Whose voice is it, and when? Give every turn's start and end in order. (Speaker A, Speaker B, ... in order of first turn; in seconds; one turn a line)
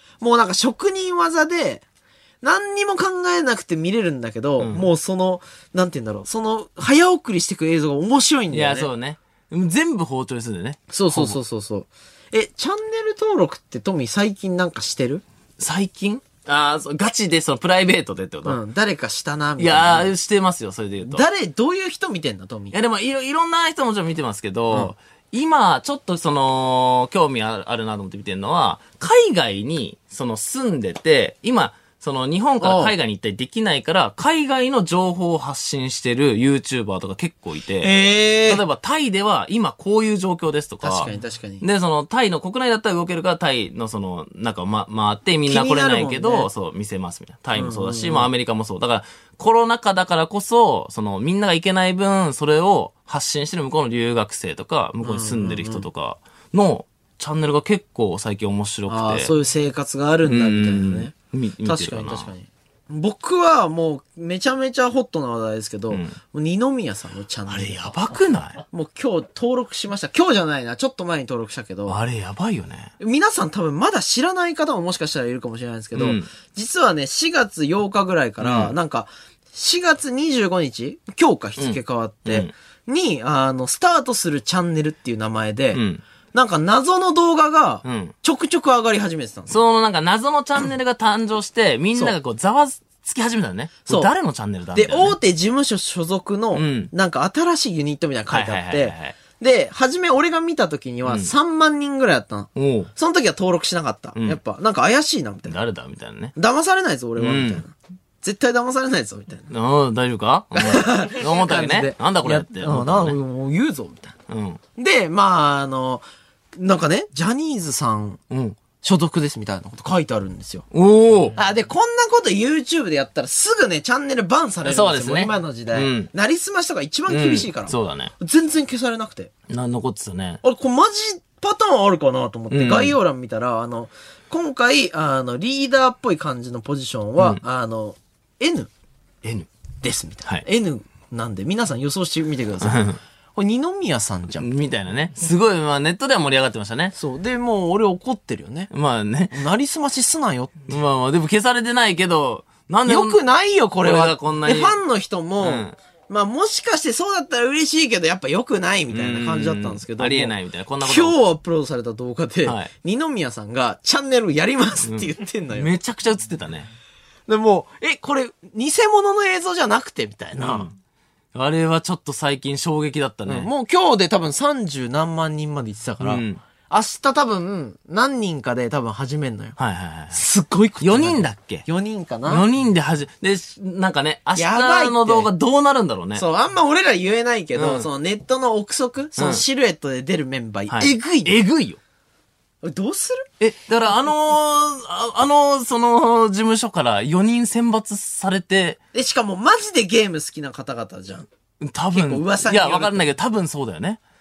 Speaker A: 0.2-1.9
Speaker A: 2.4-8.9
Speaker B: 4.6-4.9
Speaker B: 8.5-11.4
Speaker A: 10.9-15.2
Speaker B: 15.6-18.6
Speaker A: 18.4-20.1
Speaker B: 19.6-21.2
Speaker A: 21.0-22.8
Speaker B: 22.7-59.3
Speaker A: 32.6-33.0
Speaker A: 37.8-38.6
Speaker A: 40.8-41.6
Speaker A: 45.5-46.5
Speaker A: 47.5-48.3
Speaker A: 55.0-55.9
Speaker A: 58.9-68.0
Speaker B: 60.3-62.3
Speaker B: 65.9-66.2
Speaker B: 67.5-68.6
Speaker A: 68.7-72.0
Speaker B: 71.9-72.9
Speaker A: 73.0-85.8
Speaker B: 75.9-76.3
Speaker B: 78.4-78.7
Speaker B: 81.6-82.5
Speaker B: 85.7-86.0
Speaker A: 86.3-89.6
Speaker B: 87.8-88.1
Speaker B: 89.5-95.2
Speaker A: 94.7-105.5
Speaker B: 96.5-96.9
Speaker B: 98.3-99.2
Speaker B: 101.0-101.3
Speaker B: 102.6-102.9
Speaker B: 105.5-106.3
Speaker A: 106.4-109.5
Speaker B: 107.2-107.6
Speaker B: 109.5-113.2
Speaker A: 110.5-114.2
Speaker B: 114.3-114.6
Speaker A: 114.8-118.2
Speaker B: 118.3-118.6
Speaker A: 118.8-120.7
Speaker B: 120.7-121.4
Speaker A: 121.4-129.3
Speaker B: 124.7-126.1
Speaker B: 127.1-128.1
Speaker B: 129.5-130.4
Speaker A: 130.4-138.7
Speaker B: 132.5-132.9
Speaker A: 139.8-144.5
Speaker B: 142.6-143.0
Speaker B: 144.4-146.9
Speaker A: 146.9-148.7
Speaker B: 148.7-149.4
Speaker A: 149.3-150.7
Speaker B: 150.7-153.2
Speaker A: 152.9-165.7
Speaker B: 153.8-154.8
Speaker B: 155.4-155.8
Speaker B: 158.9-161.2
Speaker B: 162.4-162.7
Speaker B: 164.8-166.7
Speaker A: 167.3-170.7
Speaker B: 170.4-170.8
Speaker B: 171.3-173.5
Speaker A: 173.3-179.6
Speaker B: 176.0-176.4
Speaker B: 179.6-180.2
Speaker A: 180.1-182.5
Speaker B: 180.8-181.7
Speaker B: 182.3-186.2
Speaker A: 184.4-185.3
Speaker A: 186.2-191.4
Speaker B: 187.6-187.9
Speaker B: 189.2-189.4
Speaker B: 190.7-191.8
Speaker A: 192.6-193.3
Speaker B: 193.4-198.8
Speaker A: 198.9-201.3
Speaker B: 201.6-204.0
Speaker A: 201.9-203.1